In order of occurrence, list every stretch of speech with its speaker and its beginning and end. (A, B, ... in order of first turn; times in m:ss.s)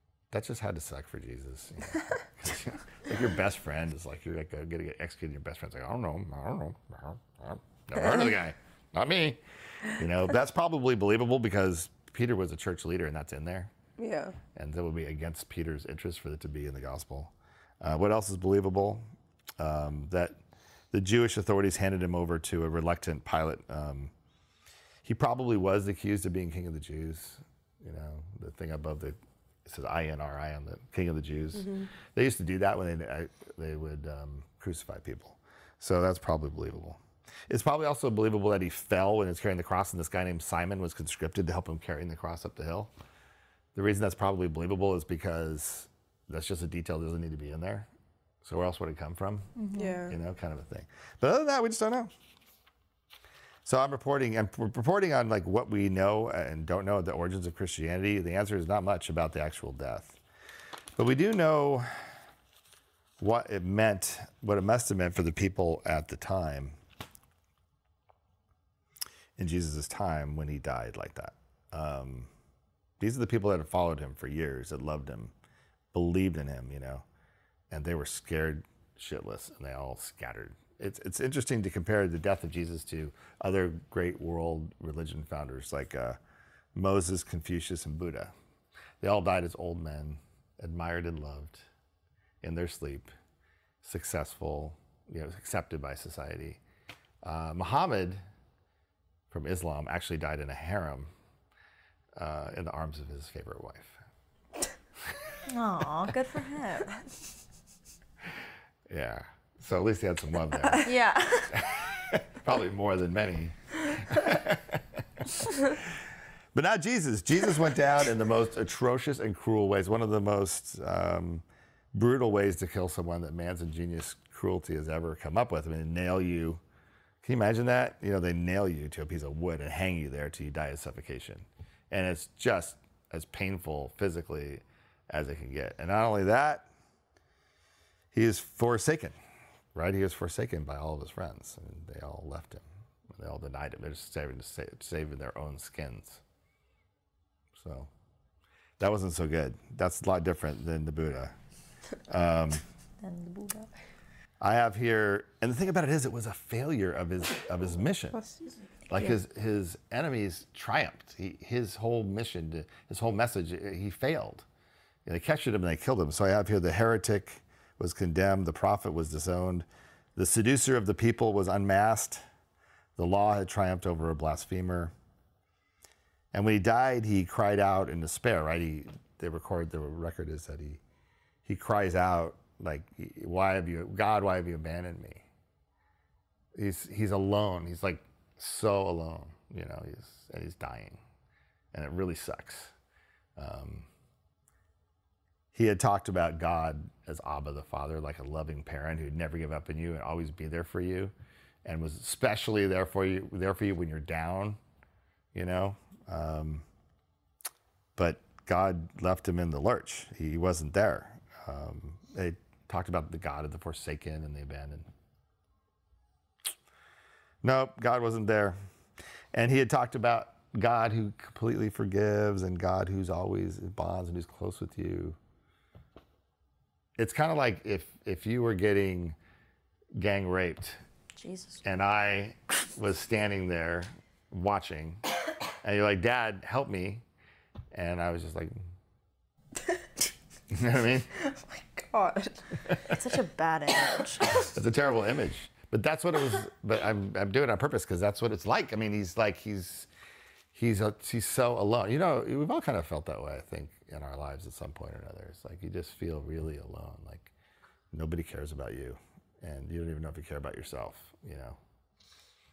0:00.3-0:13.7 A
0:14.0-0:14.4 B
0:14.6-0:19.0 A
0:19.6-0:20.4 A
0:20.9-0:24.1 A
0:25.0-0:42.9 A
0:43.8-0:47.9 A
0:48.4-0:49.5 A
0:49.6-0:50.0 C
0:49.8-0:50.2 B
0:50.1-0:52.1 A
0:53.6-1:00.2 A
1:01.0-1:02.1 A
1:03.2-1:06.8 A
1:09.4-1:12.3 A
1:13.0-1:15.3 A
1:15.9-1:17.0 A
1:17.7-1:26.2 A
1:26.8-1:28.3 A
1:29.0-1:31.7 A
1:32.4-1:33.1 A
1:33.8-1:36.6 A
1:37.2-1:38.2 A
1:39.3-1:41.1 A
1:42.2-1:44.0 A
1:45.5-1:47.1 C
1:48.9-1:50.9 A
1:50.6-1:50.9 B
1:50.8-1:51.6 C
1:51.5-1:55.9 A
1:56.5-2:06.6 A
2:07.2-2:16.7 A
2:18.1-2:19.2 A
2:19.8-2:26.2 A
2:27.6-2:27.9 A
2:28.8-2:31.4 A
2:32.1-2:32.6 A
2:33.0-2:33.7 C
2:34.4-2:38.2 A
2:38.1-2:38.5 B
2:38.9-2:44.5 A
2:45.1-2:52.2 A
2:53.0-2:54.9 A
2:56.3-3:00.8 A
3:01.5-3:05.2 A
3:06.6-3:11.0 A
3:11.7-3:12.7 A
3:13.4-3:13.9 A
3:15.5-3:21.1 A
3:21.6-3:24.6 A
3:25.3-3:26.6 A
3:28.0-3:34.9 A
3:37.4-3:38.6 A
3:39.3-3:45.2 A
3:47.0-3:49.2 A
3:50.0-3:50.8 A
3:51.2-3:51.6 C
3:51.6-3:55.0 A
3:55.6-3:57.0 A
3:57.7-3:58.6 A
4:00.5-4:01.1 A
4:01.1-4:02.6 B
4:02.9-4:04.3 C
4:04.4-4:09.9 A
4:10.5-4:17.3 A
4:17.9-4:21.6 A